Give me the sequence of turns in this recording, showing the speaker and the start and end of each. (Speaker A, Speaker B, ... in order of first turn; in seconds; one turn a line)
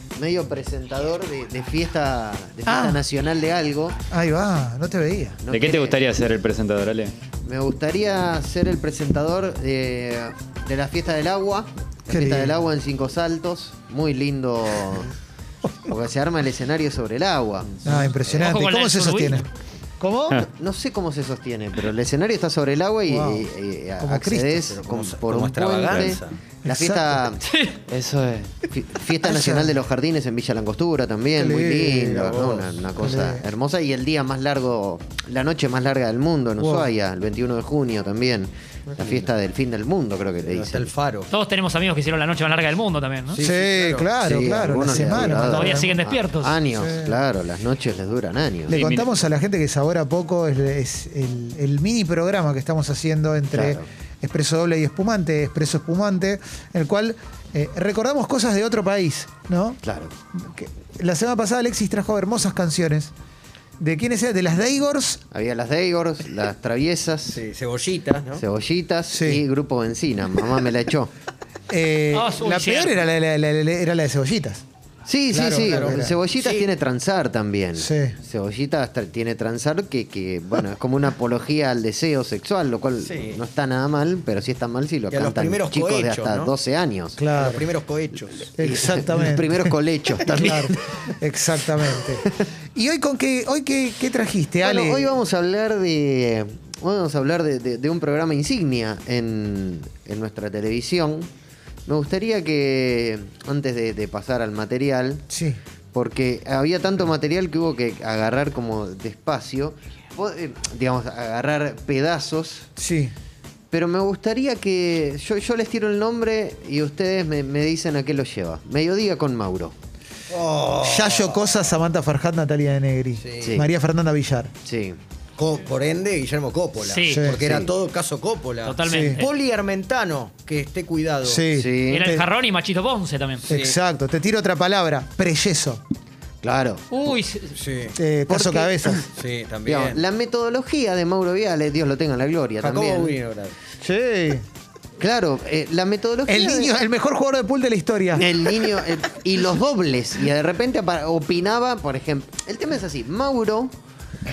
Speaker A: 0.2-4.0
Speaker B: 2.6-3.0
Speaker B: 4.1-5.4
Speaker A: 5.4-6.0
Speaker C: 5.5-7.1
Speaker A: 7.4-15.1
Speaker B: 12.1-12.6
Speaker A: 15.8-17.7
Speaker B: 17.8-19.5
Speaker D: 18.3-19.4
Speaker B: 20.0-20.4
Speaker A: 20.4-40.9
Speaker B: 23.1-23.5
Speaker B: 24.0-24.7
Speaker E: 24.7-26.4
Speaker B: 26.6-27.2
Speaker D: 27.5-27.7
Speaker B: 29.2-29.8
Speaker B: 31.4-33.4
Speaker B: 36.6-36.9
Speaker E: 40.5-41.3
Speaker D: 41.3-43.4
Speaker E: 43.3-44.1
Speaker B: 43.4-45.9
Speaker A: 44.2-48.8
Speaker D: 45.4-46.5
Speaker B: 46.8-47.1
Speaker B: 48.7-59.8
Speaker C: 48.7-49.2
Speaker A: 53.5-53.8
Speaker A: 59.8-60.1
Speaker B: 60.3-63.1
Speaker B: 63.8-65.2
Speaker A: 65.3-67.4
Speaker E: 67.3-68.4
Speaker A: 68.4-71.1
Speaker B: 69.1-69.4
Speaker B: 71.7-74.6
Speaker D: 72.1-73.0
Speaker A: 75.0-87.2
Speaker B: 75.3-76.2
Speaker E: 75.7-76.7
Speaker B: 77.8-78.2
Speaker E: 83.0-83.4
Speaker E: 85.1-86.5
Speaker B: 87.2-87.6
Speaker E: 87.3-88.5
Speaker B: 88.6-89.7
Speaker A: 88.6-90.8
Speaker B: 90.3-92.2
Speaker A: 91.9-92.4
Speaker B: 92.7-95.2
Speaker A: 94.6-101.3
Speaker A: 101.9-105.2
Speaker B: 105.3-105.6
Speaker A: 105.9-112.7
Speaker B: 112.8-113.1
Speaker A: 113.7-119.7
Speaker E: 120.3-121.4
Speaker B: 120.8-124.5
Speaker E: 123.2-123.5
Speaker A: 123.4-123.7
Speaker A: 124.7-125.0
Speaker E: 125.4-131.4
Speaker D: 126.8-127.3
Speaker B: 127.0-127.4
Speaker A: 127.4-127.7
Speaker D: 128.6-129.3
Speaker B: 128.8-129.2
Speaker B: 131.2-132.3
Speaker A: 131.5-132.1
Speaker D: 131.9-133.4
Speaker E: 133.4-133.8
Speaker B: 133.5-135.8
Speaker A: 136.4-136.9
Speaker D: 136.9-137.6
Speaker E: 137.5-138.0
Speaker B: 137.9-139.1
Speaker A: 138.3-139.0
Speaker E: 139.1-140.0
Speaker A: 139.7-143.1
Speaker E: 142.6-143.5
Speaker B: 143.8-144.4
Speaker A: 145.0-146.7
Speaker B: 146.3-148.7
Speaker A: 148.2-153.7